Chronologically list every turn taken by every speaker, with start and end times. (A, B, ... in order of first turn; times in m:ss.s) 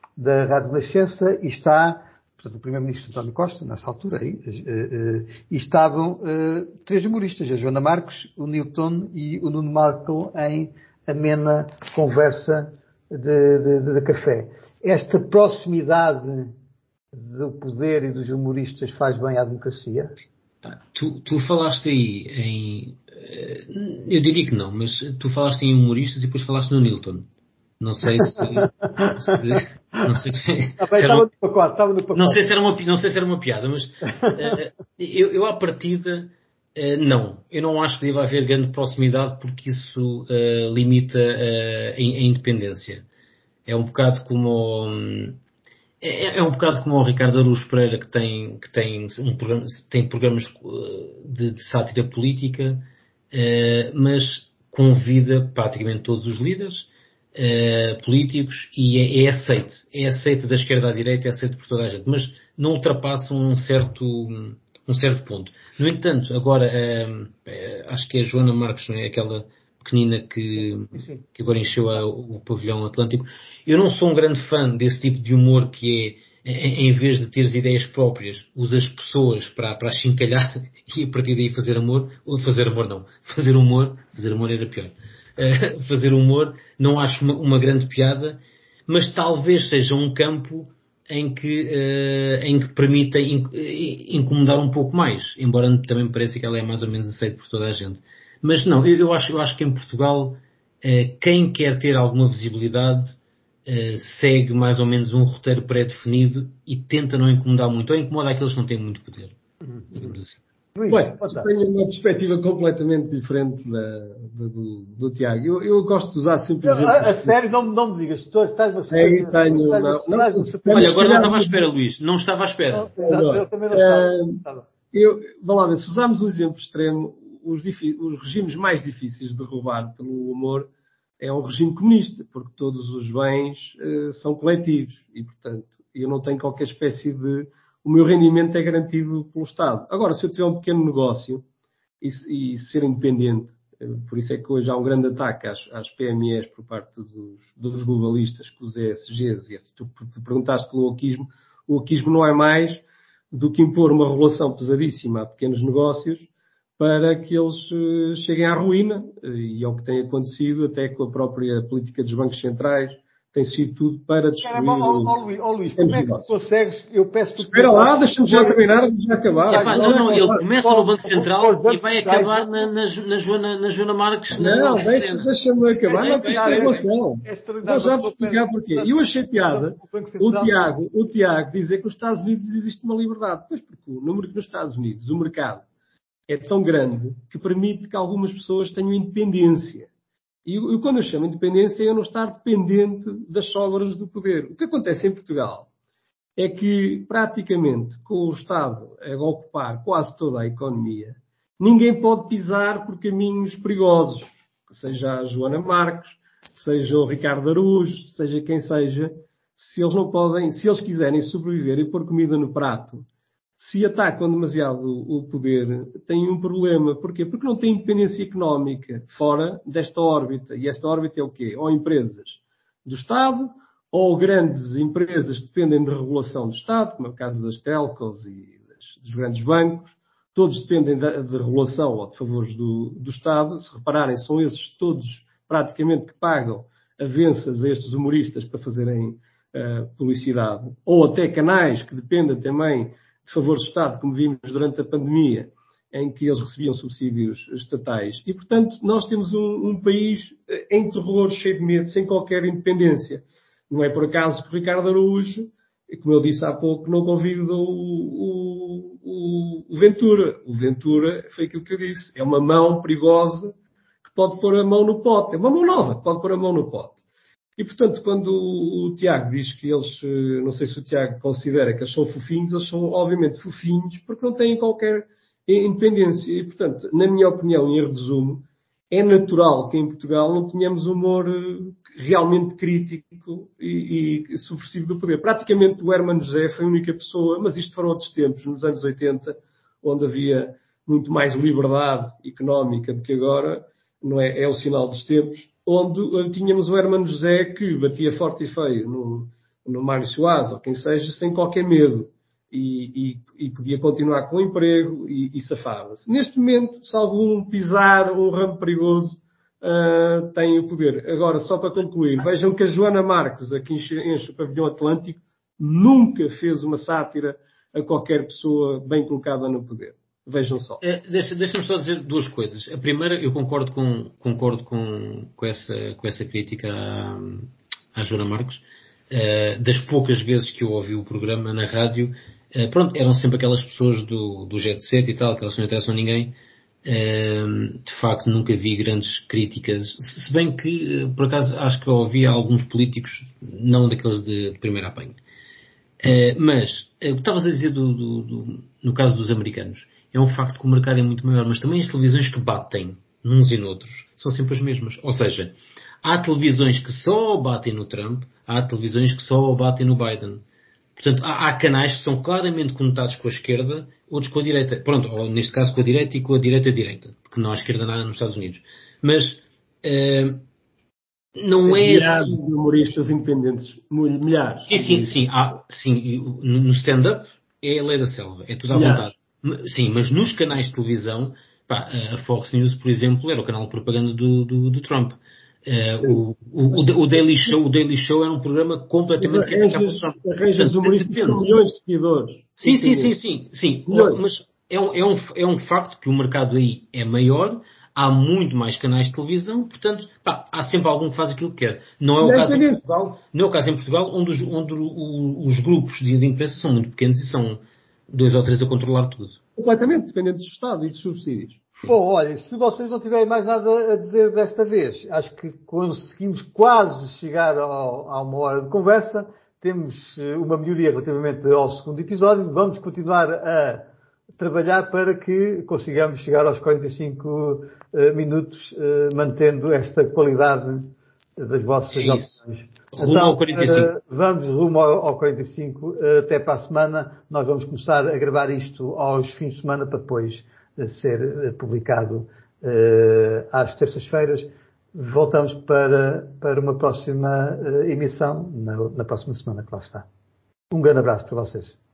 0:00.2-0:16.5 A
0:17.1-0:20.1 A
0:20.7-0:27.3 B
0:27.8-0:31.3 B
0:28.6-0:29.6 A
0:30.8-0:32.4 A
0:32.2-0:43.1 B
0:34.2-0:34.6 A
0:43.7-0:45.4 B
0:46.0-1:49.4 B
1:10.6-1:11.2 A
1:49.8-1:50.2 A
1:49.9-1:50.4 B
1:50.8-1:51.5 A
1:50.9-1:57.4 C
1:56.6-2:01.0 A
1:58.9-2:01.7 C
2:00.7-2:02.9 B
2:02.7-2:04.7 A
2:03.0-2:04.4 C
2:04.9-2:10.7 C
2:11.2-2:21.4 C
2:22.0-2:36.3 C
2:36.8-2:45.2 C
2:44.4-2:48.9 A
2:45.8-2:46.2 C
2:47.4-2:50.4 C
2:49.5-2:52.6 A
2:49.5-2:55.3 B
2:54.4-3:05.6 C
2:55.8-3:00.7 A
2:56.0-2:56.8 B
3:06.3-3:09.9 C
3:10.5-3:15.7 C
3:16.4-3:33.1 C
3:33.6-4:23.5 C
4:24.0-4:27.0 C
4:27.6-5:20.8 C
5:20.8-5:45.2 B
5:46.0-6:00.4 B
6:01.0-6:10.4 B
6:11.4-6:12.4 B
6:11.6-6:15.1 C
6:14.6-6:31.5 B
6:18.7-6:19.1 C
6:29.2-6:33.1 C
6:32.6-6:49.4 B
6:33.9-6:34.2 C
6:42.2-6:42.9 C
6:49.6-6:51.7 C
6:51.8-7:03.9 A
7:04.4-7:30.1 A
7:11.9-7:12.4 B
7:12.9-7:13.9 B
7:30.7-7:31.8 A